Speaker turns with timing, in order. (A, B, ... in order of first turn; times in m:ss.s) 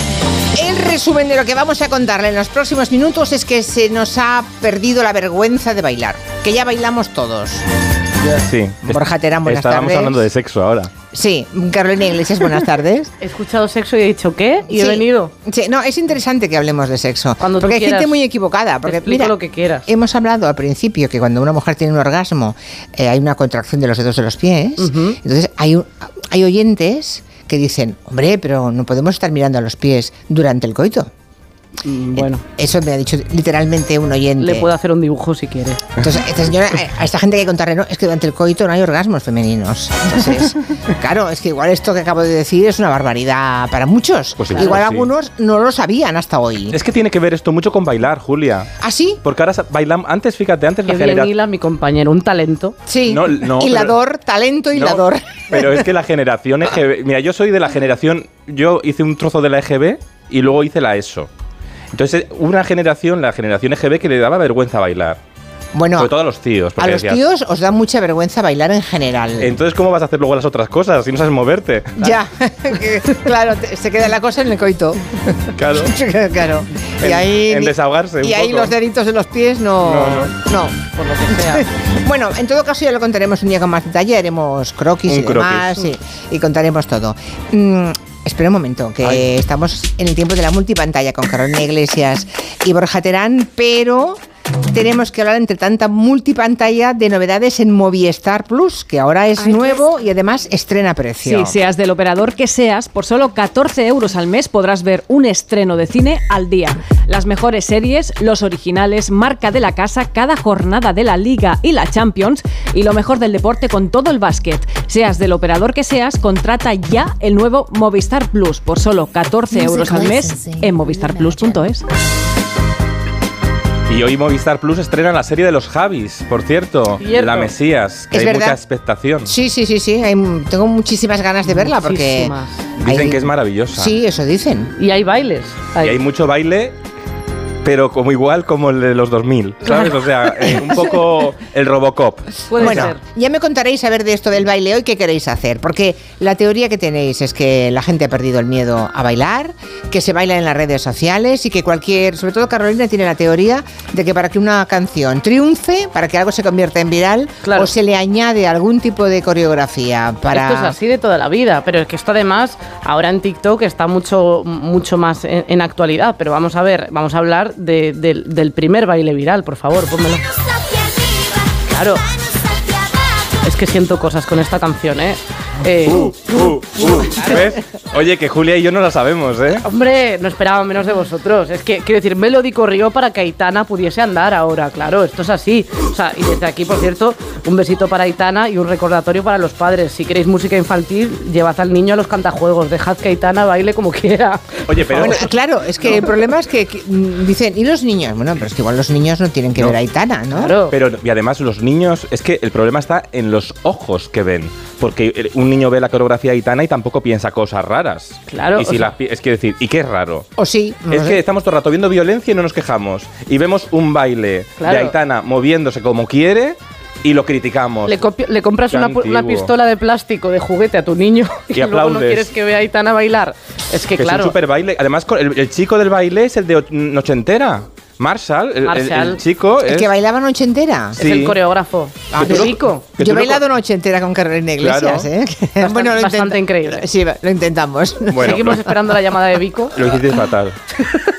0:00.5-0:07.6 A
0:08.2-0:10.9 B
0:08.9-0:10.2 A
0:11.1-0:13.1 A
0:13.2-0:15.3 C
0:14.7-0:19.3 A
0:17.4-0:18.1 C
0:18.8-0:19.9 C
0:19.9-0:31.1 A
0:24.8-0:25.2 C
0:31.8-0:32.4 C
0:32.2-0:34.7 A
0:34.4-0:35.8 C
0:36.0-0:46.8 A
0:44.4-0:45.1 B
0:46.7-0:51.3 B
0:48.8-0:49.2 A
0:50.9-0:52.8 C
0:52.9-0:55.9 A
0:53.0-0:54.0 B
0:54.8-1:01.3 B
1:01.9-1:05.2 B
1:05.7-1:06.1 A
1:06.0-1:07.2 B
1:06.8-1:09.5 A
1:09.4-1:12.2 B
1:12.0-1:41.6 A
1:15.6-1:15.9 B
1:17.0-1:18.7 B
1:19.8-1:20.3 B
1:21.0-1:21.6 C
1:25.1-1:25.8 B
1:41.2-2:01.8 D
1:59.6-2:00.6 A
2:03.9-2:09.3 B
2:07.0-2:07.5 C
2:08.1-2:08.6 A
2:09.2-2:14.7 A
2:11.5-2:12.7 C
2:12.8-2:14.0 B
2:14.8-2:16.0 C
2:15.8-2:16.7 B
2:17.6-2:22.9 B
2:20.4-2:20.9 A
2:22.5-2:23.0 C
2:22.6-2:40.8 A
2:37.4-2:37.7 C
2:40.3-2:50.2 C
2:51.7-2:52.0 C
2:53.4-2:56.2 C
2:55.8-2:59.6 B
2:57.1-2:57.4 C
2:59.6-3:15.2 C
3:14.7-3:15.3 B
3:14.9-3:20.5 A
3:20.3-3:20.7 C
3:20.7-3:30.3 B
3:28.3-3:28.9 C
3:30.4-3:31.2 A
3:30.9-3:38.0 B
3:34.6-3:34.9 C
3:37.8-3:44.3 C
3:38.7-3:39.5 B
3:41.5-3:42.3 B
3:44.0-3:49.9 B
3:48.6-3:49.2 C
3:49.6-3:51.0 A
3:51.0-3:52.8 C
3:51.0-3:51.4 B
3:52.1-3:58.6 A
3:52.2-3:53.4 B
3:54.6-3:55.1 B
3:55.6-3:56.8 C
3:58.1-3:58.7 B
3:58.1-3:59.8 C
3:59.7-4:00.6 B